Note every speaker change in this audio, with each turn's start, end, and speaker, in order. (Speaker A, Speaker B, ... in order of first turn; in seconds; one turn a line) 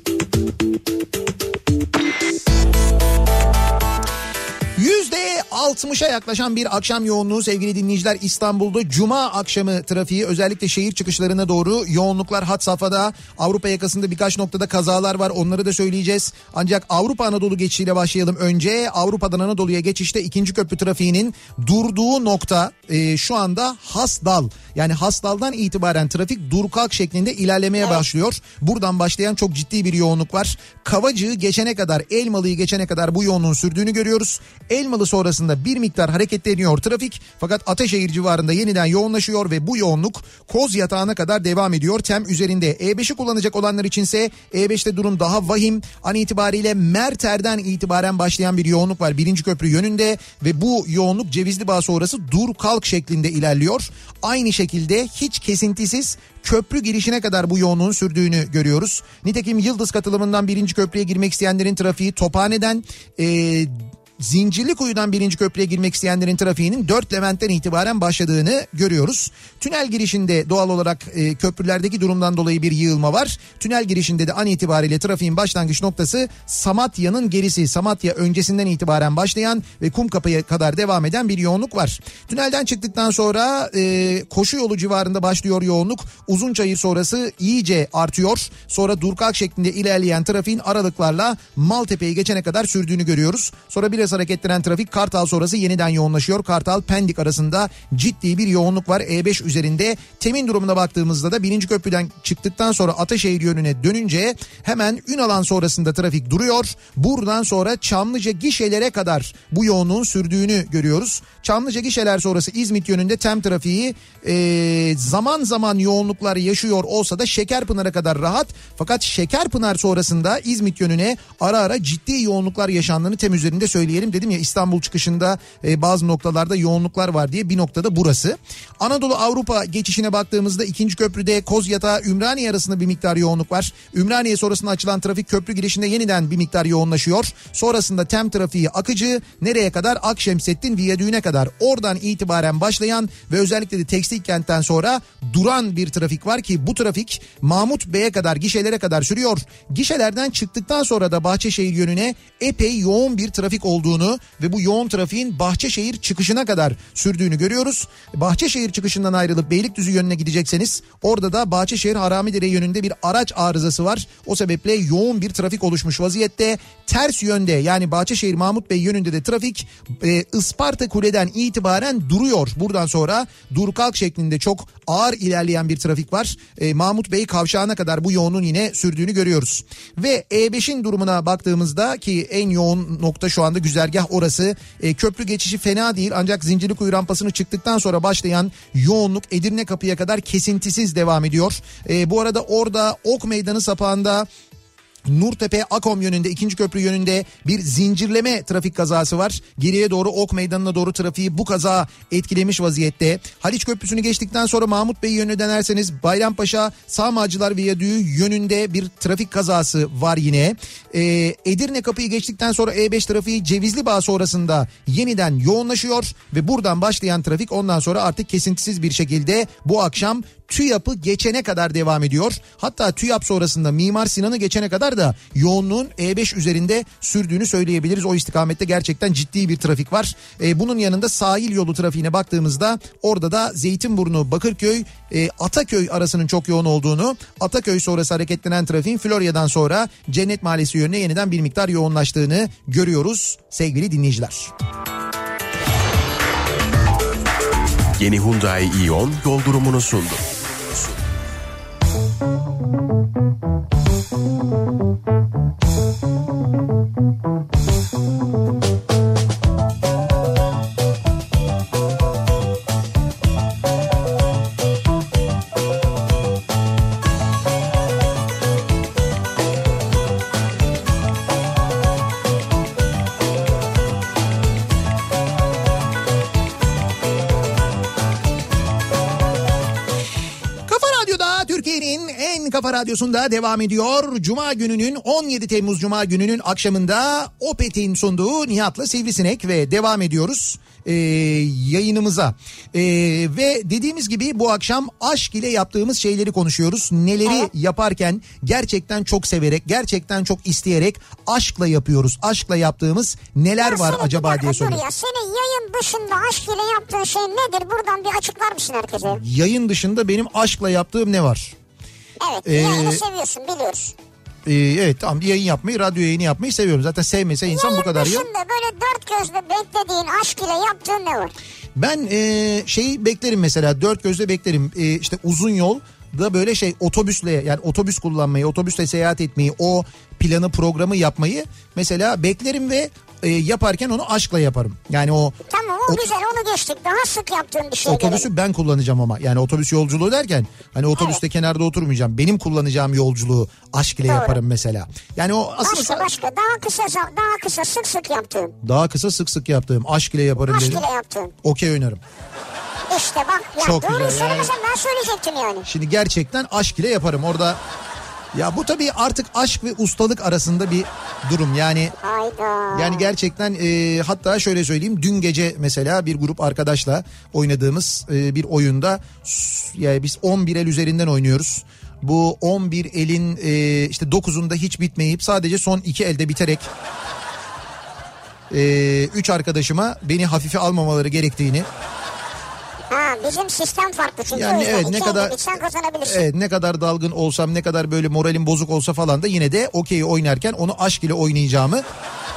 Speaker A: 4.8-194.3
Speaker A: 195.1-244.5
Speaker B: 248.0-250.9
Speaker A: 280.7-304.8
Speaker C: 297.2-297.5
Speaker C: 303.6-309.2
Speaker A: 309.0-311.6
Speaker C: 312.2-313.9
Speaker A: 312.4-313.0
Speaker A: 314.5-318.3
Speaker C: 317.5-321.3
Speaker A: 321.8-336.1
Speaker C: 335.5-338.3
Speaker A: 337.9-346.1
Speaker C: 340.9-341.2
Speaker C: 344.1-344.4
Speaker C: 345.6-348.6
Speaker A: 348.6-350.9
Speaker C: 350.4-351.3
Speaker A: 351.4-352.0
Speaker C: 352.9-355.7
Speaker A: 353.6-354.5
Speaker A: 355.7-357.6
Speaker A: 358.3-361.9
Speaker C: 362.0-363.1
Speaker A: 362.7-376.7
Speaker A: 378.5-381.7
Speaker C: 382.9-386.2
Speaker A: 384.3-385.4
Speaker A: 386.0-391.8